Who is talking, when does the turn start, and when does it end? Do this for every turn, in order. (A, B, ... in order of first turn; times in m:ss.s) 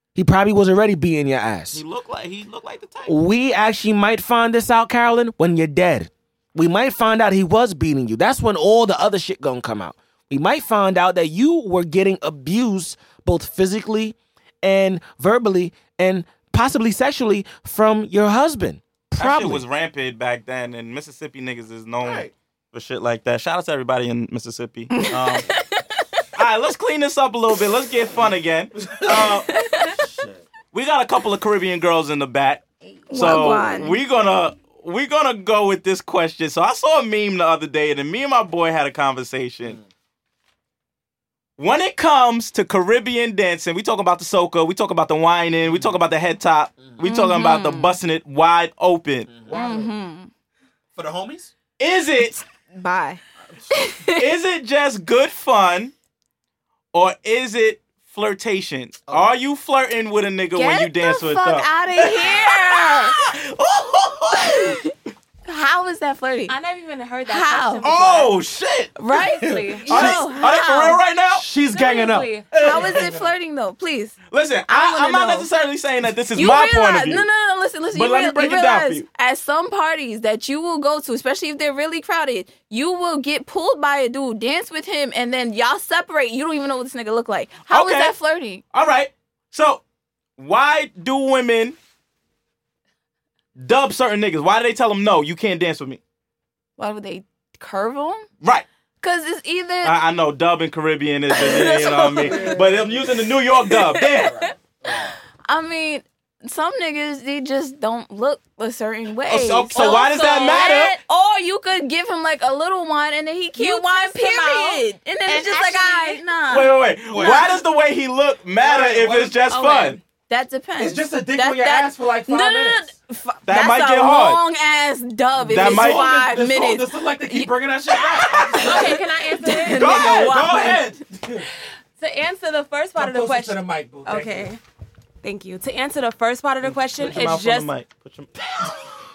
0:00.1-0:01.8 A
0:01.7-0:03.1 B
0:03.1-0:19.6 A
0:19.2-0:25.5 B
0:22.0-0:22.3 A
0:24.9-0:25.8 C
0:26.4-0:29.5 B
0:28.2-0:30.5 A
0:29.2-0:29.9 C
0:30.7-0:39.8 B
0:33.1-0:34.0 C
0:41.6-0:49.3 B
0:45.6-0:45.9 A
0:47.0-0:48.0 C
0:49.3-0:49.8 A
0:49.5-0:50.3 C
0:50.9-0:51.5 A
0:51.8-0:52.4 B
0:52.2-0:54.2 C
0:53.4-0:53.7 A
0:54.2-0:55.9 B
0:56.9-1:04.8 B
0:59.1-0:59.3 A
1:00.5-1:03.2 C
1:04.4-1:04.9 C
1:05.4-1:06.5 C
1:06.5-1:08.4 D
1:07.3-1:08.0 C
1:07.8-1:08.9 B
1:09.0-1:11.0 C
1:09.1-1:10.2 A
1:09.5-1:10.1 D
1:09.9-1:11.4 B
1:11.3-1:13.3 A
1:11.7-1:13.1 D
1:12.6-1:14.2 C
1:14.3-1:17.2 B
1:14.7-1:15.5 C
1:16.3-1:28.6 C
1:17.9-1:19.0 B
1:27.7-1:28.1 B
1:28.7-1:29.8 B
1:30.4-1:31.8 B
1:33.6-1:36.0 B
1:36.8-1:38.3 C
1:39.0-1:40.0 C
1:39.8-1:44.3 B
1:41.3-1:57.6 C
1:42.3-1:43.2 A
1:43.9-1:45.1 A
1:49.3-1:50.1 A
1:49.5-1:51.0 B
1:53.5-1:56.2 D
1:56.5-2:00.0 B
1:57.1-1:57.5 A
1:58.6-1:59.5 A
1:59.5-2:00.0 D
2:00.3-2:11.0 C
2:00.8-2:02.8 A
2:03.4-2:04.4 B
2:05.4-2:09.0 A
2:05.5-2:06.1 B
2:08.6-2:09.9 D
2:09.7-2:11.4 A
2:09.8-2:10.6 B
2:12.0-2:14.6 D
2:12.9-2:14.5 A
2:15.2-2:17.7 D
2:16.6-2:18.8 B